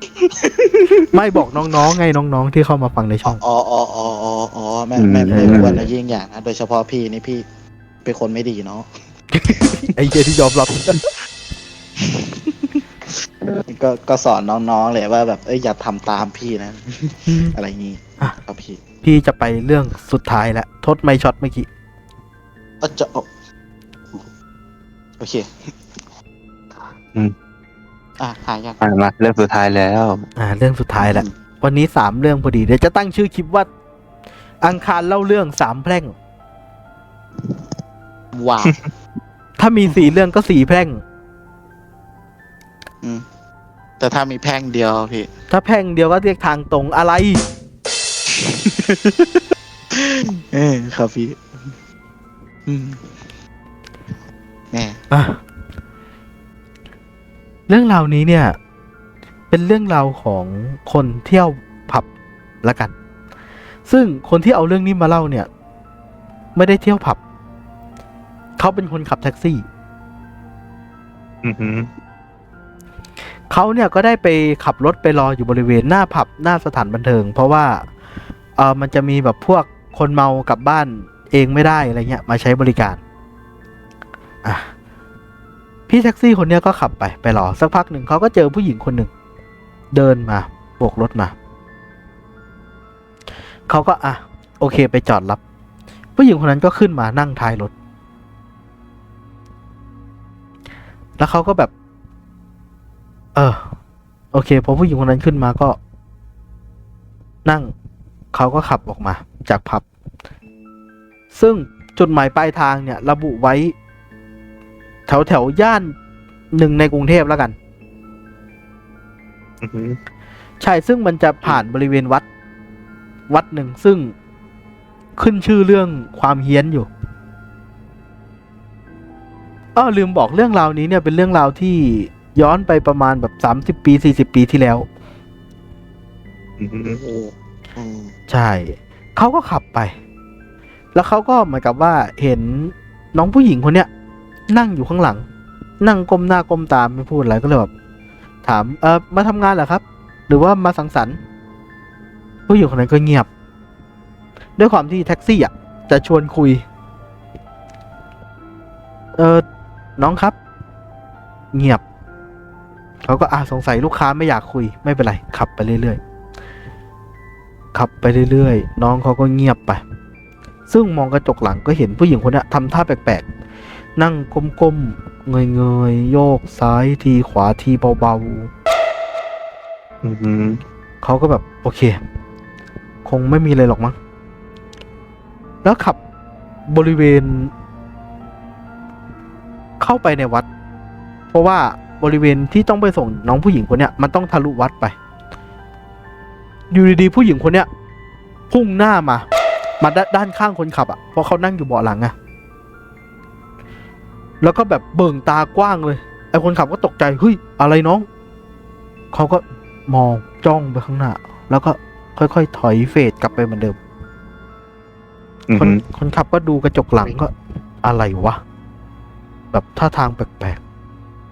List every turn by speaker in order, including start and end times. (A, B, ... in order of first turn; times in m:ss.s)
0:00.2-0:01.1 A
0:01.1-0:03.4 B
0:03.2-0:07.4 A
0:05.0-0:05.8 C
0:05.3-0:05.8 B
0:08.0-0:08.9 A
0:09.8-0:11.0 B
0:12.0-0:12.8 A
0:13.5-0:18.8 A
0:17.3-0:17.6 B
0:19.0-0:21.7 B
0:22.8-0:23.3 A
0:25.2-0:25.7 A
0:28.2-0:28.8 A
0:28.8-0:30.2 C
0:30.4-0:33.7 B
0:31.0-0:31.3 A
0:34.6-0:36.1 B
0:38.3-0:38.8 A
0:39.6-0:41.0 B
0:44.0-0:45.3 A
0:45.5-0:47.4 B
0:48.3-0:51.7 A
0:52.6-0:53.1 A
0:54.7-0:55.0 A
0:55.1-0:55.4 B
0:57.7-0:58.6 B
0:59.5-1:02.1 B
1:02.6-1:02.9 B
1:03.9-1:05.5 B
1:06.5-1:07.2 B
1:08.6-1:09.6 B
1:11.4-1:11.9 C
1:13.5-1:17.9 B
1:18.6-1:23.0 B
1:24.4-1:24.7 B
1:25.9-1:29.1 B
1:29.9-1:31.3 B
1:33.7-1:35.4 B
1:36.2-1:37.7 B
1:41.2-1:41.7 B
1:43.4-1:43.7 B
1:44.3-1:45.8 B
1:47.4-1:47.7 B
1:48.3-1:49.8 B
1:51.3-1:53.8 B
1:55.1-1:56.0 B
1:56.5-1:57.5 B
1:59.6-2:00.0 C
2:00.6-2:02.2 B
2:03.3-2:04.1 B
2:05.2-2:06.9 B
2:09.8-2:14.9 B
2:16.6-2:17.0 C
2:16.8-2:18.1 A
2:18.3-2:19.9 B
2:20.9-2:23.9 B
2:24.5-2:25.2 B
2:25.8-2:27.7 B
2:28.4-2:31.2 B
2:32.5-2:33.3 B
2:34.6-2:36.6 B
2:39.2-2:39.4 B
2:40.0-2:40.4 B
2:41.5-2:41.8 B
2:43.0-2:46.0 B
2:47.7-2:49.8 B
2:50.7-2:53.2 B
2:54.0-2:58.5 B
3:00.0-3:00.6 C
3:01.0-3:02.0 B
3:03.0-3:04.0 B
3:05.6-3:06.0 B
3:06.7-3:07.5 B
3:09.8-3:10.5 B
3:11.3-3:14.9 B
3:16.7-3:17.7 B
3:18.5-3:19.2 B
3:19.8-3:22.1 B
3:24.4-3:28.1 B
3:29.1-3:33.8 B
3:35.5-3:35.8 C
3:35.6-3:38.4 B
3:39.5-3:40.6 B